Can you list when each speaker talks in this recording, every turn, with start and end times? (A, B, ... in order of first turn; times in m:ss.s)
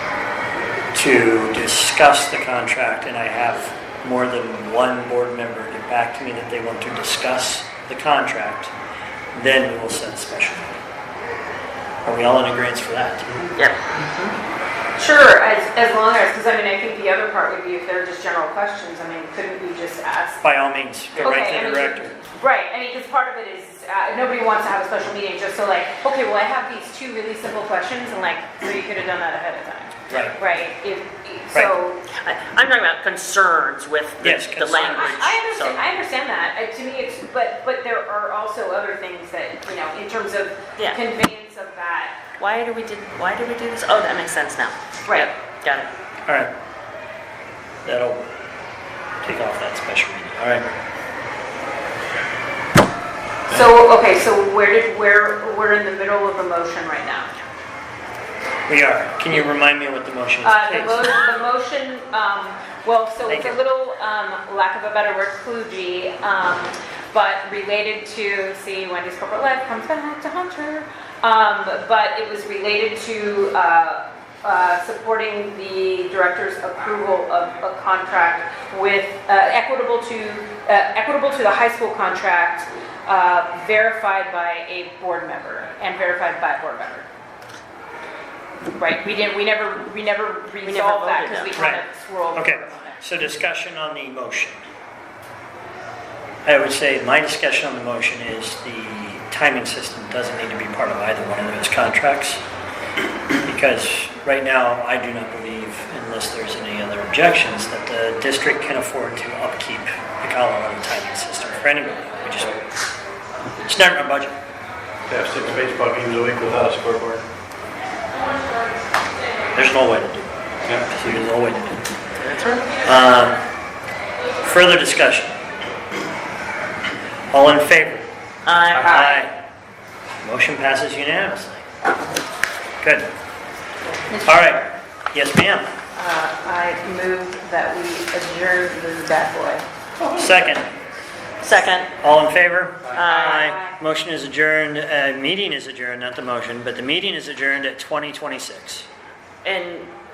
0:00.9-0:08.7 A
0:09.3-0:10.7 A
0:12.0-0:13.4 A
0:13.6-0:14.3 B
0:15.0-0:20.4 C
0:20.4-0:22.1 A
0:21.1-0:21.4 B
0:21.2-0:32.0 C
0:30.1-0:30.4 A
0:32.1-0:35.8 B
0:34.2-0:35.2 A
0:34.6-0:42.2 C
0:42.4-0:45.9 B
0:45.0-0:45.3 C
0:46.3-0:46.5 A
0:47.8-0:48.3 A
0:49.2-0:50.6 A
0:53.5-0:57.3 C
0:58.7-1:01.1 A
1:00.4-1:27.0 C
1:03.2-1:03.6 A
1:28.7-1:33.0 C
1:30.6-1:31.6 B
1:31.6-1:34.6 A
1:36.4-1:42.4 A
1:43.4-1:52.6 A
1:53.6-1:54.4 A
1:55.1-1:57.2 D
1:59.5-2:00.3 A
2:00.8-2:01.8 A
2:02.2-2:02.8 B
2:02.8-2:03.4 A
2:04.4-2:05.4 A
2:07.3-2:08.1 A
2:08.4-2:09.2 B
2:08.7-2:09.3 A
2:10.2-2:11.6 A
2:12.8-2:13.1 A
2:14.1-2:14.7 C
2:14.2-2:15.7 A
2:15.9-2:19.6 C
2:20.1-2:20.7 A
2:21.4-2:21.9 B
2:22.0-2:28.9 A
2:22.9-2:23.4 B
2:23.1-2:23.8 C
2:29.4-2:29.9 B